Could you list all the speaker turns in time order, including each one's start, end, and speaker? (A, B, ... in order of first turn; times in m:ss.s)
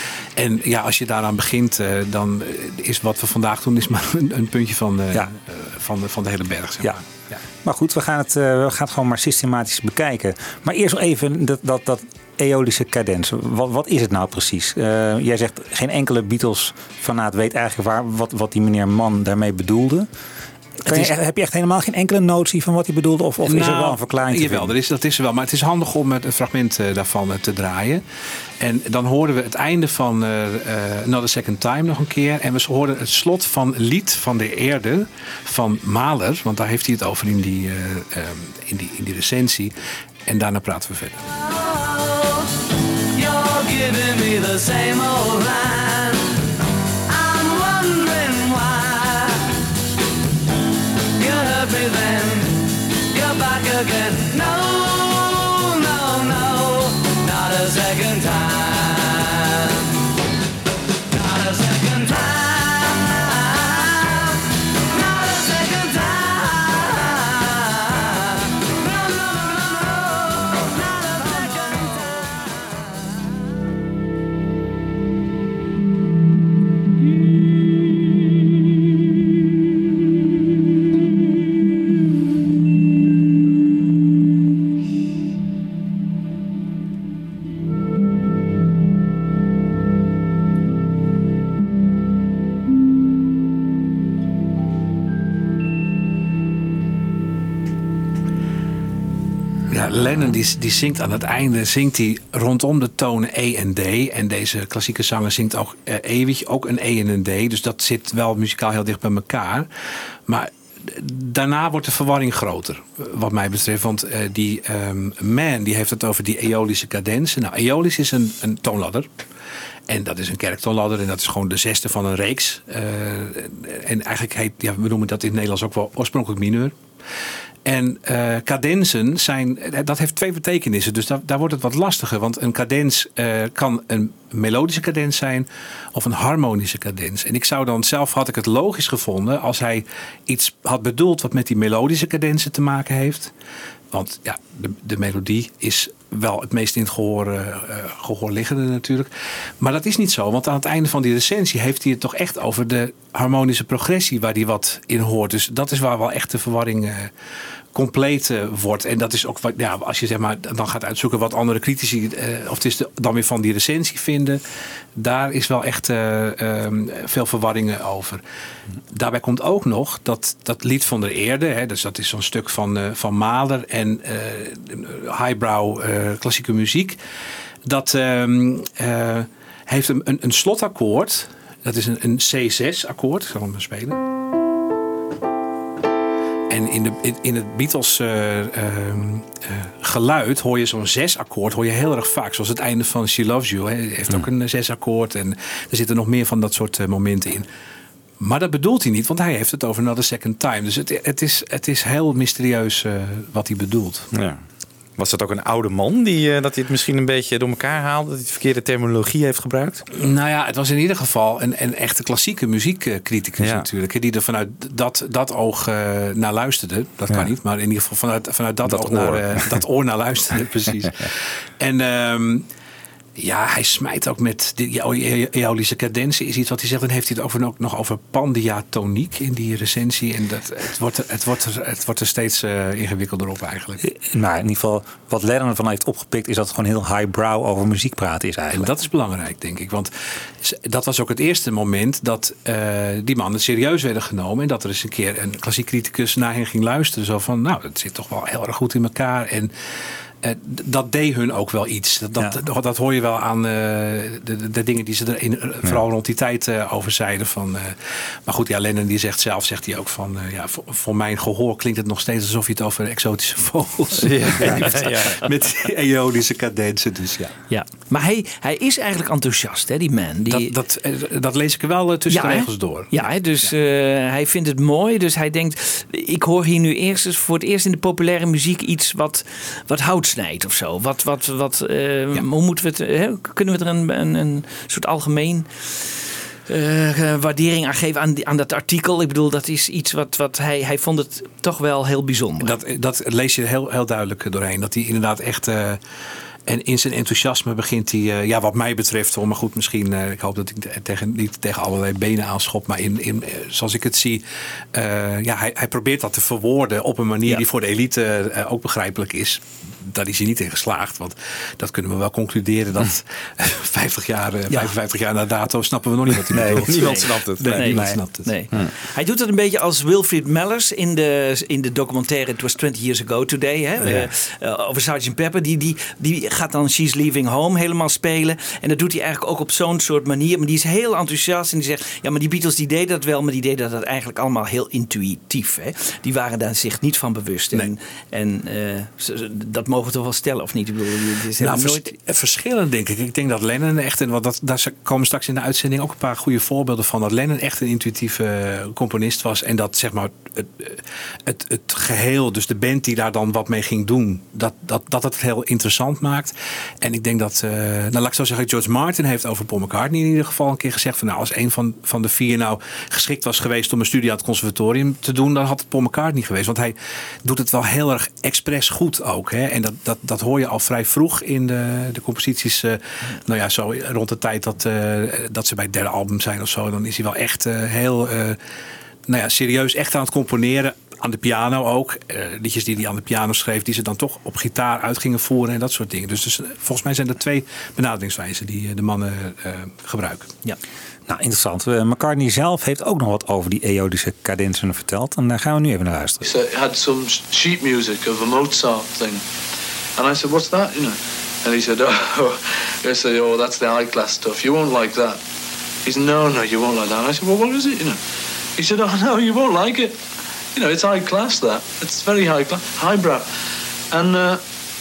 0:00.4-0:07.4 A
0:07.6-0:20.1 B
0:20.8-0:24.7 B
0:23.4-0:28.0 A
0:28.6-0:39.7 A
0:40.2-0:41.2 A
0:41.4-0:42.5 C
0:43.1-0:46.4 C
0:47.1-0:49.6 C
0:51.2-1:00.0 C
1:01.1-1:12.3 C
1:39.7-1:49.7 A
1:50.3-1:59.1 A
1:59.9-2:06.8 A
2:07.6-2:23.3 A
2:23.9-2:37.1 A
2:37.7-2:44.4 A
2:45.0-2:48.2 A
2:48.9-2:57.0 A
2:57.6-3:04.0 A
3:06.5-3:17.5 A
3:18.2-3:24.1 A
3:24.1-3:24.4 D
3:25.0-3:29.8 D
3:29.9-3:42.5 A
3:33.4-3:33.7 D
3:38.6-3:39.6 D
3:43.2-3:53.8 A
3:53.8-3:58.7 B
3:58.5-4:09.5 A
4:10.2-4:27.3 A
4:24.0-4:25.2 D
4:27.5-4:30.5 E
4:30.3-4:32.9 A
4:32.1-4:52.6 E
4:52.4-4:55.8 A
4:56.4-5:18.3 A
5:16.3-5:16.9 B
5:16.4-5:17.8 D
5:17.5-5:41.9 E
5:17.6-5:18.0 B
5:41.4-6:18.4 A
6:19.1-6:30.3 A
6:31.1-6:36.3 B
6:36.2-6:39.2 F
6:40.0-6:45.2 F
6:45.8-6:48.0 F
6:48.6-6:50.0 F
6:50.5-6:54.4 F